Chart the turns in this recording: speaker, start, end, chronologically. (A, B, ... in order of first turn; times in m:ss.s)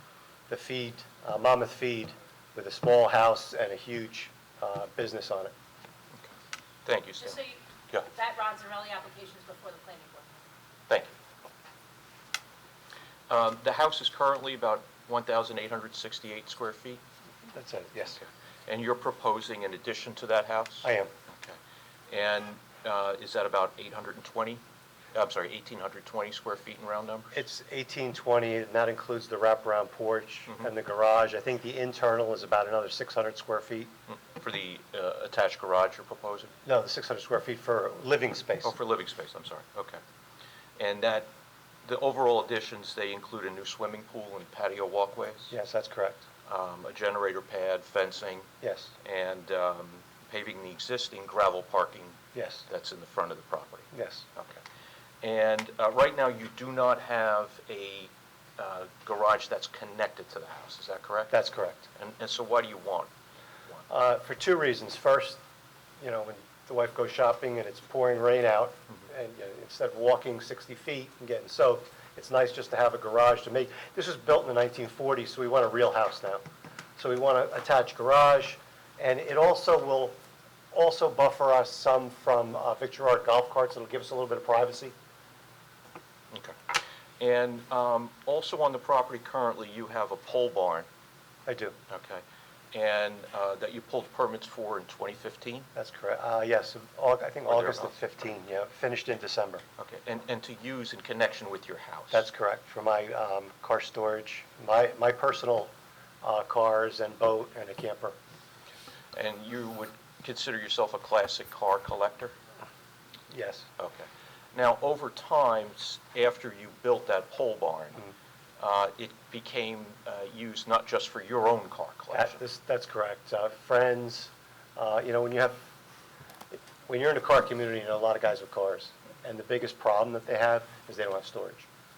0:00.5-0:05.5 A
0:06.8-0:08.1 B
0:07.2-0:07.6 C
0:08.1-0:10.3 C
0:10.9-0:11.1 B
0:13.3-0:17.0 B
0:17.5-0:18.2 A
0:18.1-0:21.6 B
0:20.8-0:21.1 A
0:22.1-0:24.6 B
0:25.1-0:27.4 B
0:27.3-0:33.9 A
0:34.1-0:36.5 B
0:36.7-0:38.8 A
0:38.6-0:40.0 B
0:40.8-0:41.3 B
0:41.8-0:45.5 B
0:45.5-0:46.2 A
0:46.5-0:48.5 B
0:48.6-0:48.9 A
0:49.0-0:54.6 B
0:52.3-0:52.7 A
0:53.9-0:54.2 A
0:55.2-1:01.3 B
1:01.3-1:01.9 A
1:02.0-1:03.1 B
1:03.9-1:05.4 A
1:06.0-1:16.4 A
1:17.0-1:20.2 A
1:20.7-1:25.0 A
1:26.3-1:26.6 B
1:27.2-1:30.9 B
1:31.5-1:31.8 A
1:31.9-1:35.7 B
1:35.8-1:39.6 A
1:37.5-1:38.0 B
1:39.8-1:42.3 B
1:42.1-1:48.2 A
1:49.1-1:52.4 B
1:53.3-1:53.7 A
1:53.8-1:58.1 B
1:58.6-2:02.4 B
2:02.1-2:05.6 A
2:06.5-2:11.7 A